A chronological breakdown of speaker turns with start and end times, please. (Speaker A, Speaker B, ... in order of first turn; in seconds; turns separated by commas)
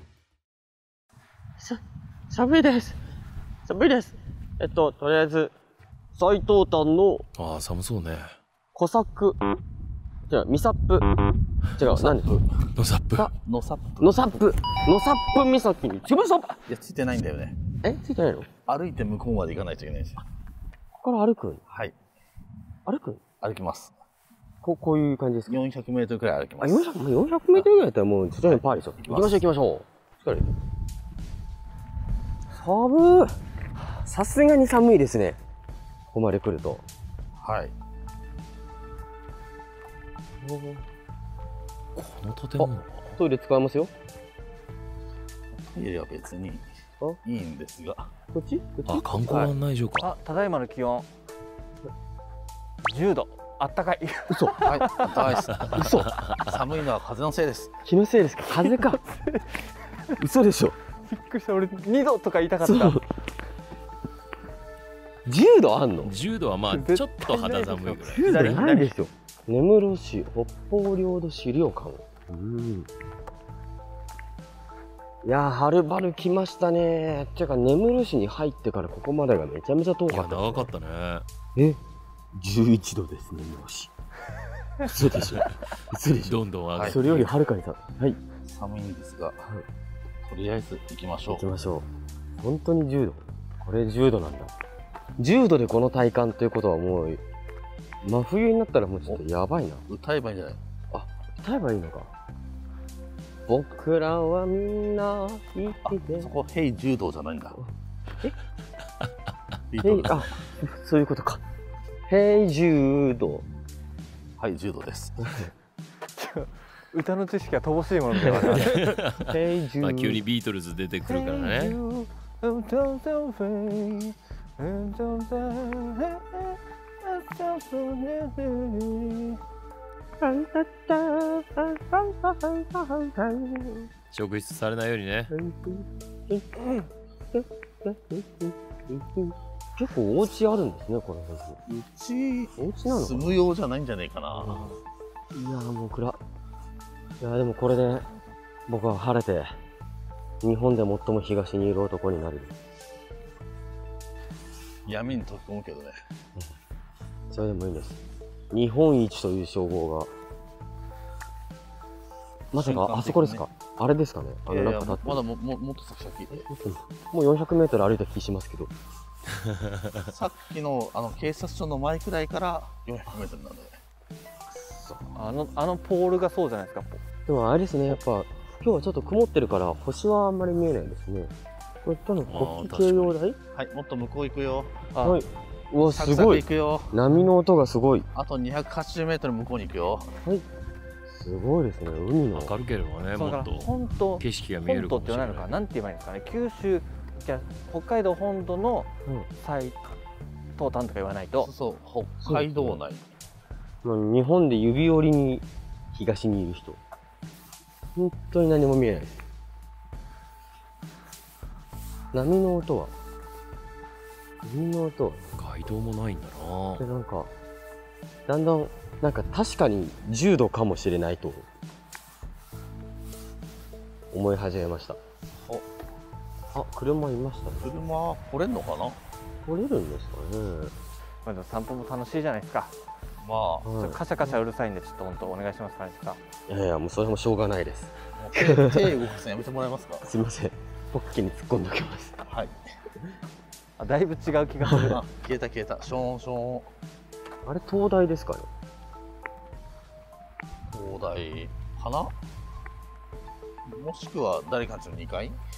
Speaker A: 1.6-3.0, Speaker A: 3.6-5.5, Speaker A: 6.2-7.2, Speaker B: 7.4-8.3, Speaker A: 8.7-9.4, Speaker A: 10.3-11.1, Speaker A: 11.8-12.3, Speaker C: 11.8-12.6, Speaker B: 12.8-13.3, Speaker C: 13.4-14.3, Speaker A: 14.0-16.6, Speaker C: 16.7-17.6, Speaker A: 17.8-18.5, Speaker C: 18.6-20.2, Speaker A: 21.0-21.6, Speaker C: 21.7-21.9, Speaker A: 22.9-23.2, Speaker C: 23.4-23.9, Speaker A: 24.6-25.6, Speaker C: 25.5-26.9, Speaker A: 26.6-30.5, Speaker C: 28.4-29.4, Speaker A: 32.5-33.3, Speaker A: 34.0-35.4, Speaker A: 36.1-36.8, Speaker C: 37.4-37.7, Speaker A: 40.4-40.8, Speaker B: 42.0-43.1, Speaker A: 42.6-43.9, Speaker C: 45.5-46.6, Speaker C: 47.2-48.1, Speaker A: 48.3-49.5, Speaker B: 48.9-50.1, Speaker D: 50.0-51.1, Speaker D: 52.8-55.3, Speaker A: 54.3-54.6, Speaker C: 54.6-55.7, Speaker B: 55.7-56.4, Speaker A: 55.7-56.1, Speaker C: 56.4-57.7, Speaker A: 57.8-59.0, Speaker D: 58.6-59.7, Speaker A: 60.2-60.8, Speaker D: 61.1-63.0, Speaker A: 62.6-63.0, Speaker A: 65.2-66.1, Speaker B: 66.0-68.6, Speaker D: 66.7-68.2, Speaker A: 68.1-72.9, Speaker C: 68.2-68.9, Speaker A: 75.2-80.7, Speaker B: 80.1-81.2, Speaker A: 82.3-83.9, Speaker A: 84.8-88.2, Speaker B: 85.0-85.4, Speaker B: 86.2-87.3, Speaker C: 88.4-89.5, Speaker C: 90.2-91.4, Speaker A: 91.3-91.9, Speaker A: 92.4-94.5, Speaker A: 95.2-97.2, Speaker A: 98.0-99.8, Speaker C: 99.9-100.6, Speaker A: 100.9-102.1, Speaker A: 103.5-106.3, Speaker C: 105.8-107.6, Speaker C: 109.7-110.3, Speaker A: 109.8-111.4, Speaker A: 112.1-113.5, Speaker C: 114.4-115.5, Speaker D: 116.1-118.8, Speaker A: 118.2-118.6, Speaker B: 118.3-119.3, Speaker A: 119.2-120.2, Speaker B: 119.8-121.8, Speaker D: 121.0-129.4, Speaker A: 130.2-133.9, Speaker B: 134.1-135.3, Speaker A: 135.3-141.6, Speaker C: 141.7-144.7, Speaker A: 142.6-143.4, Speaker A: 145.3-146.2, Speaker A: 147.2-148.0, Speaker A: 148.7-149.5, Speaker A: 150.4-152.5, Speaker C: 154.8-155.9, Speaker A: 157.3-158.0, Speaker A: 158.5-160.1, Speaker A: 162.5-165.2, Speaker C: 162.5-163.4, Speaker C: 164.5-166.4, Speaker A: 166.3-168.7, Speaker C: 170.0-173.8, Speaker A: 174.5-175.1, Speaker D: 175.1-177.0, Speaker A: 177.2-181.3, Speaker A: 181.8-183.4, Speaker B: 182.3-183.2, Speaker C: 183.5-184.7, Speaker D: 184.9-185.2, Speaker A: 185.0-188.1, Speaker C: 185.9-187.0, Speaker C: 188.1-190.1, Speaker A: 191.1-192.5, Speaker B: 192.3-195.5, Speaker D: 193.1-199.8, Speaker D: 200.6-201.5, Speaker C: 201.4-203.1, Speaker A: 202.2-202.8, Speaker A: 203.8-206.8, Speaker A: 207.9-209.2, Speaker A: 212.1-212.9, Speaker A: 214.4-215.2, Speaker B: 215.3-216.8, Speaker A: 216.8-217.3, Speaker A: 218.3-221.4, Speaker A: 224.1-225.0, Speaker A: 226.5-227.8, Speaker C: 227.6-229.0, Speaker A: 229.4-230.7, Speaker D: 231.2-232.7, Speaker C: 233.2-233.7, Speaker A: 233.6-234.4, Speaker D: 233.7-236.2, Speaker A: 236.5-238.9, Speaker C: 238.2-240.0, Speaker A: 240.0-242.3, Speaker C: 242.3-242.6, Speaker D: 243.8-245.0, Speaker C: 244.9-246.7, Speaker A: 247.4-248.5, Speaker C: 250.7-252.1, Speaker C: 253.7-255.4